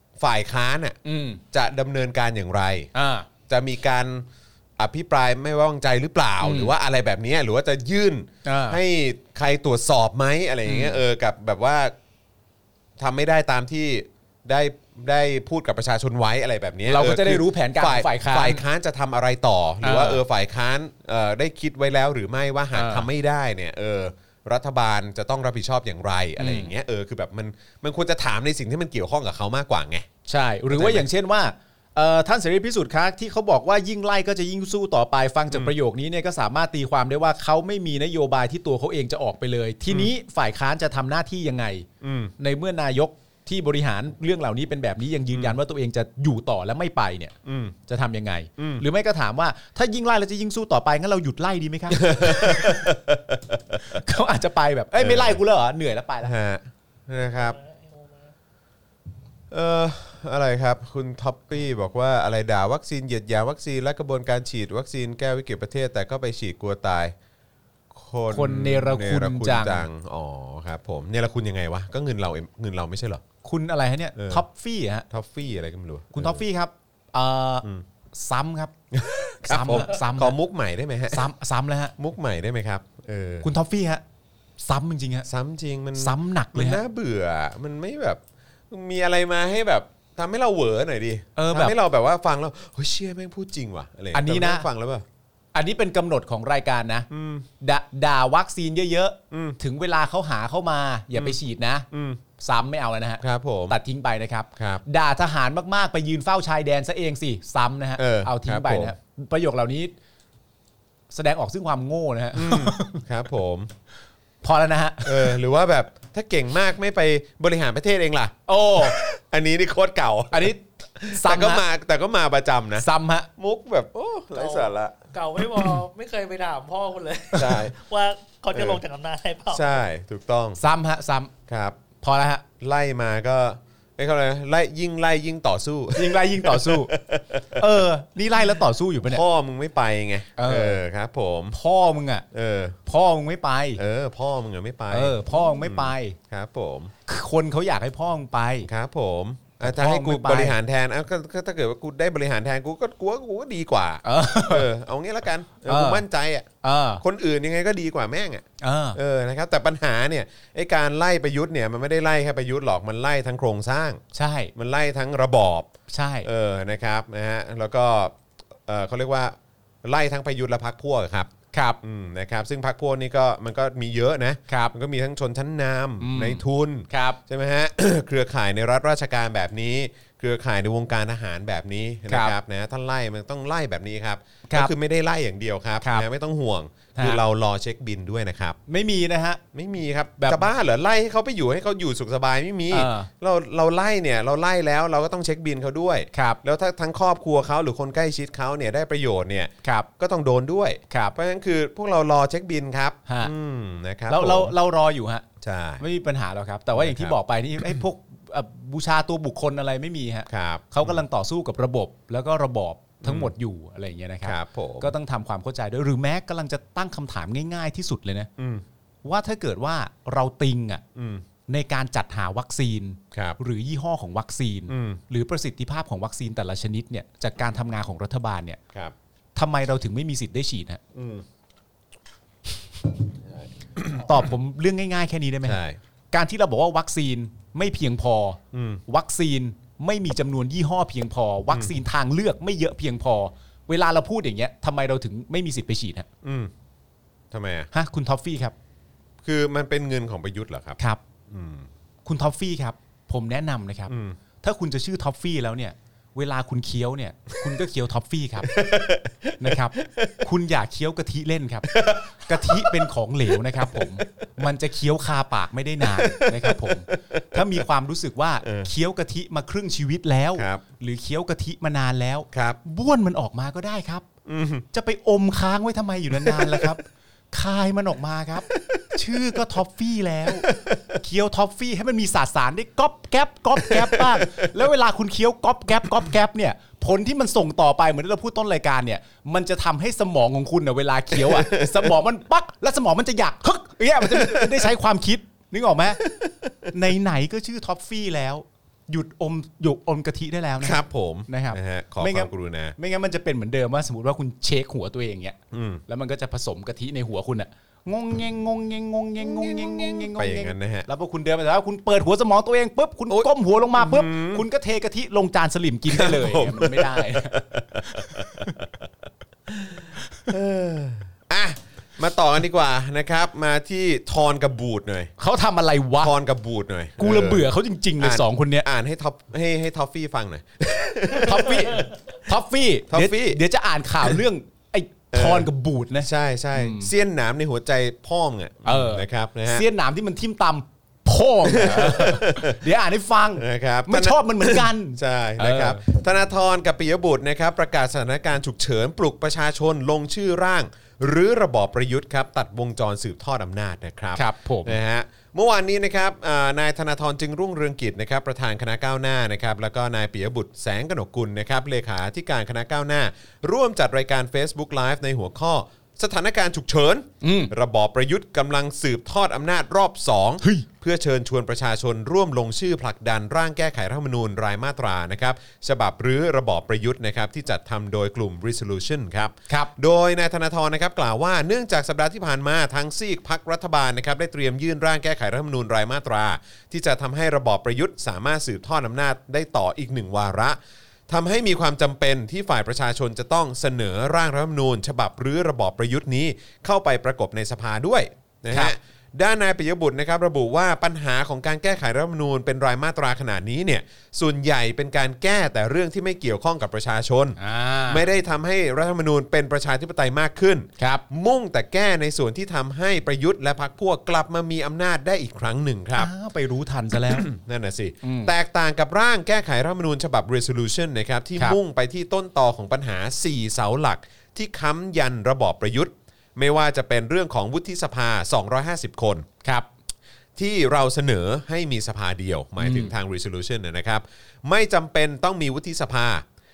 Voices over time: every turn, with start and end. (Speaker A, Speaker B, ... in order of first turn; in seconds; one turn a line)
Speaker A: 0.2-1.0
Speaker B: 1.0-1.4
Speaker A: 1.5-2.9
Speaker B: 2.9-3.3
Speaker A: 3.5-4.2
Speaker A: 4.8-11.9
Speaker B: 6.4-6.7
Speaker B: 8.4-8.8
Speaker B: 10.6-11.0
Speaker A: 13.0-30.1
Speaker B: 16.9-18.6
Speaker B: 19.8-20.2
Speaker B: 22.7-23.1
Speaker B: 26.4-26.7
Speaker B: 30.3-41.9
Speaker A: 30.7-31.1
Speaker A: 42.0-42.3
Speaker B: 42.4-47.3
Speaker A: 45.3-45.6
Speaker A: 47.5-47.8
Speaker B: 47.9-52.9
Speaker A: 48.6-48.8
Speaker A: 51.9-54.0
Speaker B: 53.8-56.3
Speaker A: 54.9-55.4
Speaker A: 56.2-57.6
Speaker C: 57.2-58.3
Speaker A: 59.5-67.1
Speaker A: 67.9-73.2
Speaker B: 68.3-69.9
Speaker B: 73.4-75.1
Speaker A: 74.2-74.4
Speaker A: 75.1-76.4
Speaker B: 76.1-78.7
Speaker A: 78.9-81.3
Speaker B: 79.4-80.3
Speaker B: 81.1-81.9
Speaker A: 82.0-83.5
Speaker B: 83.4-84.0
Speaker B: 84.6-85.3
Speaker A: 85.3-95.0
Speaker B: 86.0-86.8
Speaker B: 91.3-91.8
Speaker B: 94.1-94.7
Speaker B: 95.5-97.1
Speaker A: 97.1-97.5
Speaker B: 97.6-101.9
Speaker A: 99.3-99.6
Speaker A: 101.9-102.2
Speaker B: 102.4-109.9
Speaker A: 103.2-103.8
Speaker A: 104.5-104.8
Speaker A: 108.0-108.9
Speaker B: 111.1-113.0
Speaker A: 112.3-113.7
Speaker B: 114.4-115.3
Speaker A: 115.0-122.9
Speaker B: 118.5-119.0
Speaker B: 120.3-121.6
Speaker B: 122.8-123.3
Speaker A: 123.4-125.8
Speaker C: 124.3-129.8
Speaker A: 127.3-127.7
Speaker A: 128.5-128.8
Speaker A: 129.5-130.6
Speaker B: 130.6-131.3
Speaker A: 131.5-131.8
Speaker B: 132.0-132.4
Speaker A: 132.6-137.7
Speaker B: 135.9-136.9
Speaker B: 137.5-139.2
Speaker A: 139.0-141.6
Speaker B: 140.4-140.8
Speaker B: 141.5-142.2
Speaker A: 142.3-142.8
Speaker B: 142.8-143.8
Speaker A: 143.8-146.9
Speaker B: 144.9-146.2
Speaker B: 147.1-148.7
Speaker A: 148.6-156.5
Speaker B: 149.6-150.6
Speaker B: 154.0-154.7
Speaker B: 155.6-156.0
Speaker B: 156.6-157.0
Speaker A: 157.0-164.0
Speaker B: 158.6-159.0
Speaker B: 164.1-164.5
Speaker A: 164.6-165.7
Speaker B: 165.9-166.3
Speaker A: 166.2-171.3
Speaker B: 171.5-171.8
Speaker A: 171.8-188.6
Speaker B: 174.5-174.7
Speaker B: 176.0-177.2
Speaker B: 182.1-182.3
Speaker B: 185.8-186.1
Speaker B: 186.9-187.2
Speaker B: 188.7-189.4
Speaker A: 189.5-204.5
Speaker B: 190.2-190.5
Speaker B: 192.7-193.1
Speaker B: 196.1-196.4
Speaker B: 200.9-201.1
Speaker B: 203.1-203.3
Speaker B: 204.1-205.2
Speaker A: 205.4-205.8
Speaker B: 205.8-218.3
Speaker A: 206.8-207.8
Speaker A: 210.3-211.0
Speaker A: 213.0-213.3
Speaker A: 214.2-214.9
Speaker A: 218.4-218.6
Speaker B: 219.0-220.8
Speaker A: 220.9-221.2
Speaker B: 221.5-228.6
Speaker A: 223.1-223.4
Speaker A: 224.7-225.0
Speaker B: 229.3-230.8
Speaker A: 230.9-231.2
Speaker A: 233.2-234.2
Speaker B: 234.0-235.6
Speaker A: 235.4-235.8
Speaker B: 236.1-246.1
Speaker A: 238.5-238.8
Speaker A: 246.2-246.5
Speaker A: 247.3-247.7
Speaker B: 247.7-248.5
Speaker A: 249.2-251.7
Speaker B: 252.0-258.6
Speaker A: 253.9-254.2
Speaker A: 258.5-260.2
Speaker B: 259.4-274.0
Speaker A: 261.7-264.0
Speaker A: 265.8-267.6
Speaker A: 268.4-268.7
Speaker A: 270.4-270.6
Speaker A: 272.3-272.6
Speaker A: 274.2-274.6
Speaker B: 274.7-296.0
Speaker A: 276.1-276.8
Speaker A: 278.5-279.4
Speaker A: 280.3-281.0
Speaker A: 283.6-284.5
Speaker A: 291.1-291.9
Speaker A: 294.0-294.7
Speaker A: 296.0-296.7
Speaker B: 296.7-318.5
Speaker A: 300.6-302.7
Speaker A: 305.5-305.8
Speaker A: 309.2-310.9
Speaker A: 313.1-314.4
Speaker A: 315.9-318.9
Speaker A: 319.5-325.1
Speaker B: 325.2-326.1
Speaker A: 326.0-331.9
Speaker B: 327.0-328.7
Speaker B: 331.1-336.9
Speaker A: 332.9-333.4
Speaker A: 335.1-335.5
Speaker A: 336.0-339.6
Speaker B: 338.6-345.8
Speaker A: 341.4-342.6
Speaker A: 343.4-416.1
Speaker B: 354.1-354.8
Speaker B: 367.2-367.5
Speaker B: 407.4-408.1
Speaker B: 410.8-411.0
Speaker B: 415.9-417.3
Speaker A: 416.9-429.2
Speaker B: 418.0-418.3
Speaker A: 430.4-436.2
Speaker B: 432.6-432.9